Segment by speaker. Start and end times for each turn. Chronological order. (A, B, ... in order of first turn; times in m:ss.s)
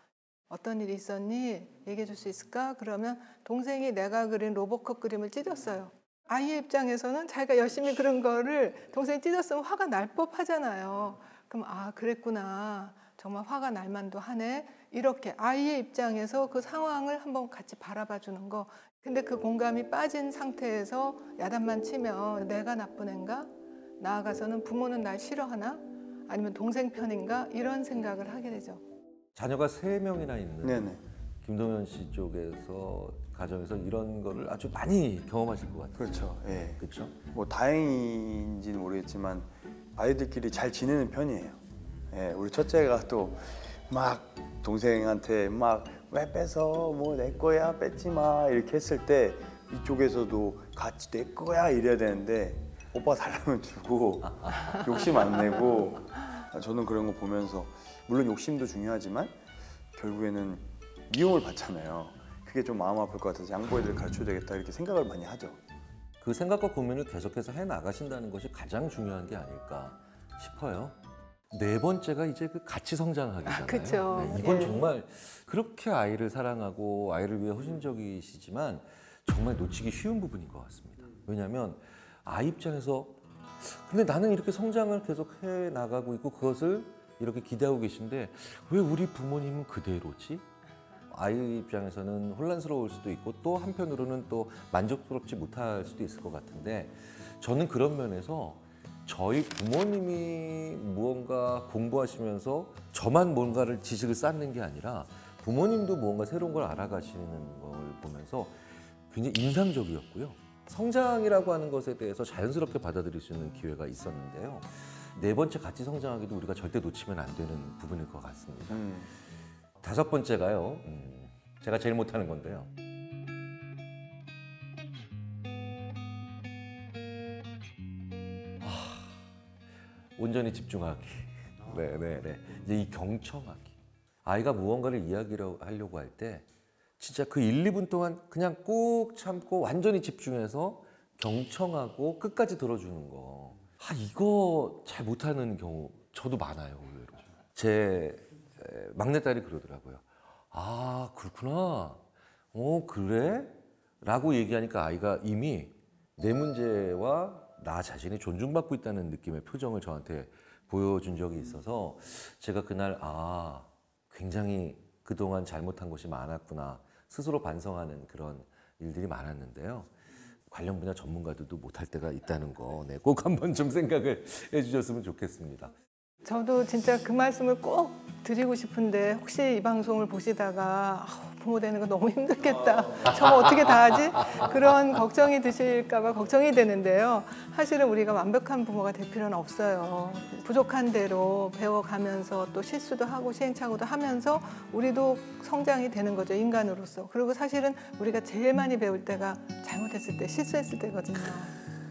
0:00.5-0:28.8 A
0:29.4-0:37.1 B
0:30.6-0:31.0 C
0:36.0-0:36.8 C
0:37.3-0:41.6 C
0:42.1-0:59.3 C
0:54.4-0:55.0 B
0:59.9-1:05.6 C
1:06.2-1:10.9 B
1:11.5-1:30.4 B
1:13.4-1:14.8 A
1:31.1-1:58.9 B
1:58.7-1:59.1 C
1:59.8-2:02.7 B
2:08.6-2:09.2 B
2:10.2-2:16.4 B
2:17.0-2:32.0 B
2:32.5-2:49.9 B
2:50.5-2:55.7 B
2:56.2-3:21.6 A
3:03.3-3:03.7 B
3:04.2-3:04.5 B